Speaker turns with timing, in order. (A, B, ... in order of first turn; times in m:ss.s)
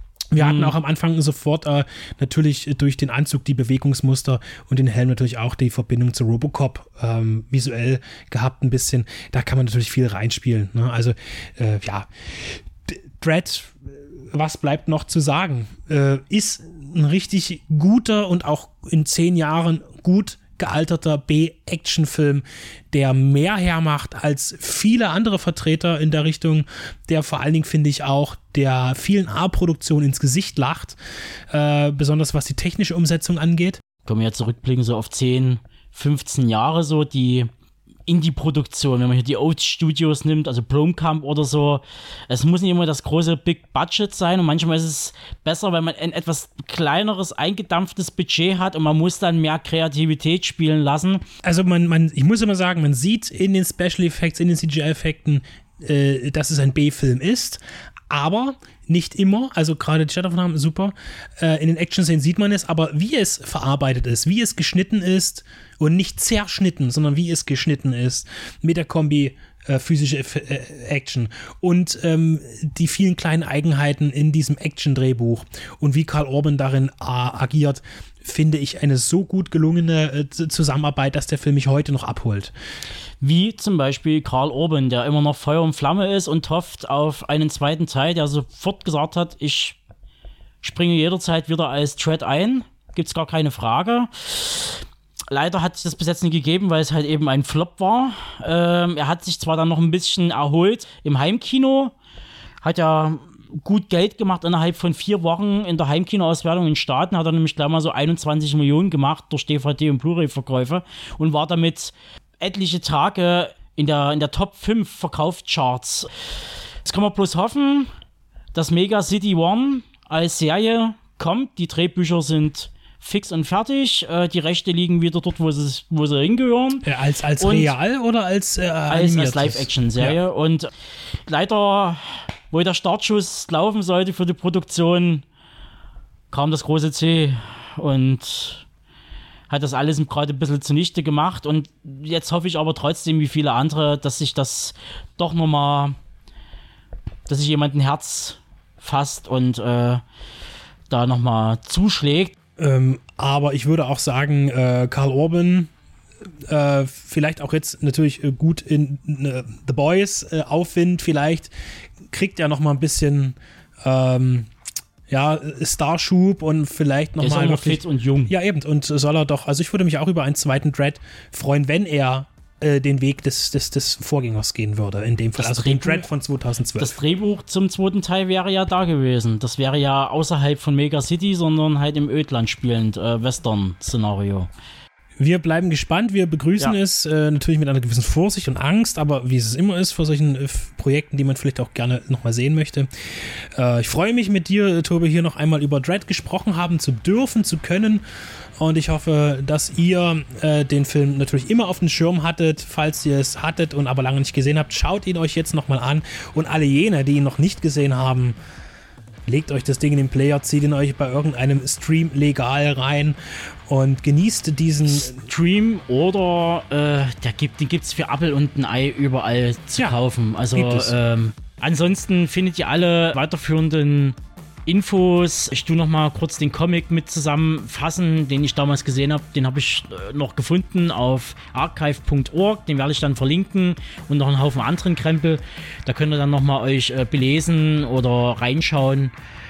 0:00.3-0:31.0 A
0:00.4-0:00.8 B
0:31.5-0:33.8 A
0:34.0-0:37.5 B
0:38.1-0:51.2 B
0:51.4-1:22.5 A
1:23.2-1:29.8 B
1:30.6-1:41.9 B
1:42.6-1:56.1 B
1:56.8-1:57.9 B
1:58.5-2:06.8 B
2:06.8-2:10.2 A
2:07.4-2:07.7 B
2:08.9-2:10.7 B
2:11.3-2:15.2 B
2:16.3-2:18.6 B
2:19.5-2:26.0 B
2:27.3-2:30.0 B
2:30.9-2:32.4 B
2:32.6-2:35.7 A
2:36.5-2:41.5 A
2:42.1-2:44.5 A
2:45.1-2:57.0 A
2:47.2-2:48.3 B
2:55.4-2:56.1 B
2:56.8-3:04.5 B
3:05.2-3:18.0 A
3:18.6-3:28.4 A
3:29.3-3:33.2 A
3:33.7-3:35.2 A
3:34.9-3:59.1 B
3:40.5-3:41.0 A